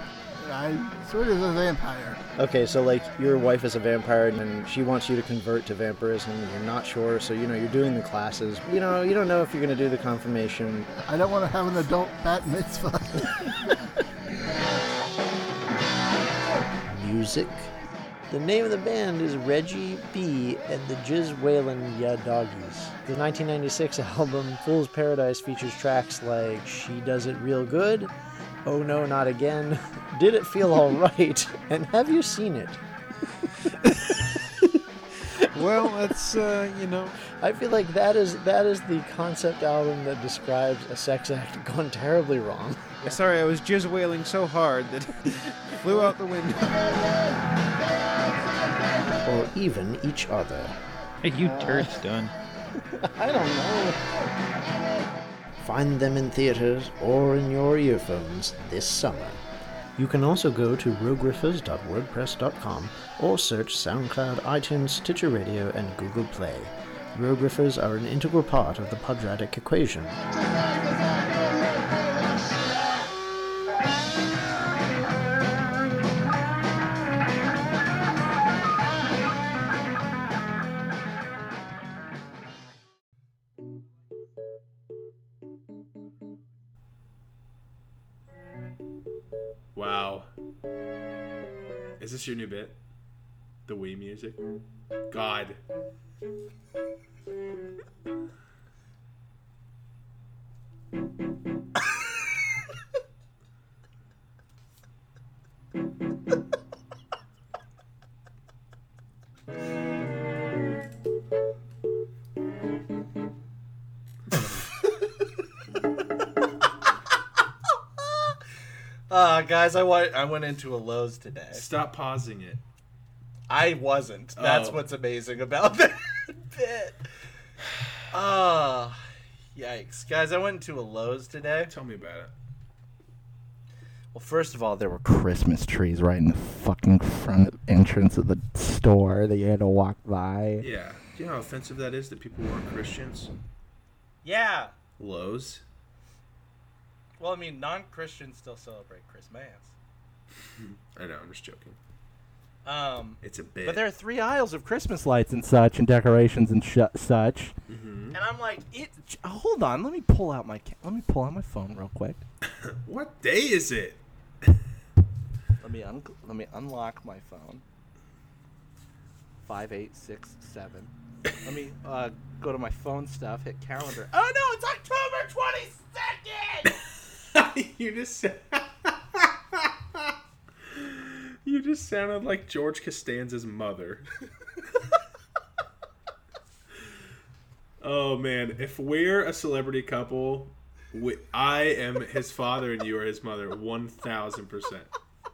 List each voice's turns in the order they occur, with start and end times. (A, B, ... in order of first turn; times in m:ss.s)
0:00.4-0:02.2 A
0:02.4-0:10.9 B
0:11.0-0:13.5 A
0:16.9-0:17.7 B
0:18.3-0:28.1 B
0:28.6-0:32.8 B
0:34.0-0:34.3 B
0:35.5-0:37.2 C
0:37.3-0:43.2 B
0:43.0-0:47.0 C
0:45.9-0:46.1 B
0:49.1-0:50.8 B
0:51.2-0:52.3 C
0:51.4-0:52.0 B
0:52.8-0:54.0 B
0:55.6-0:59.4 B
1:00.0-1:10.2 B
1:29.8-1:30.3 D
1:32.0-1:32.8 D
1:33.7-1:34.4 D
1:35.1-1:35.6 D
1:58.0-1:58.4 E
1:59.1-2:01.6 E
2:01.5-2:02.6 D
2:03.5-2:07.1 E
2:04.4-2:04.8 D
2:08.1-2:09.0 E
2:09.6-2:11.7 E
2:11.7-2:12.3 D
2:14.1-2:20.7 E
2:20.6-2:23.3 D
2:24.2-2:24.8 E
2:25.0-2:25.6 D
2:27.2-2:29.7 E
2:30.6-2:31.8 D
2:32.6-2:37.6 E
2:33.2-2:33.8 D
2:37.7-2:38.2 D
2:38.1-2:42.2 E
2:42.5-2:44.6 D
2:45.6-2:47.6 E
2:49.4-2:56.8 E
2:57.2-3:04.1 D
3:07.8-3:14.9 D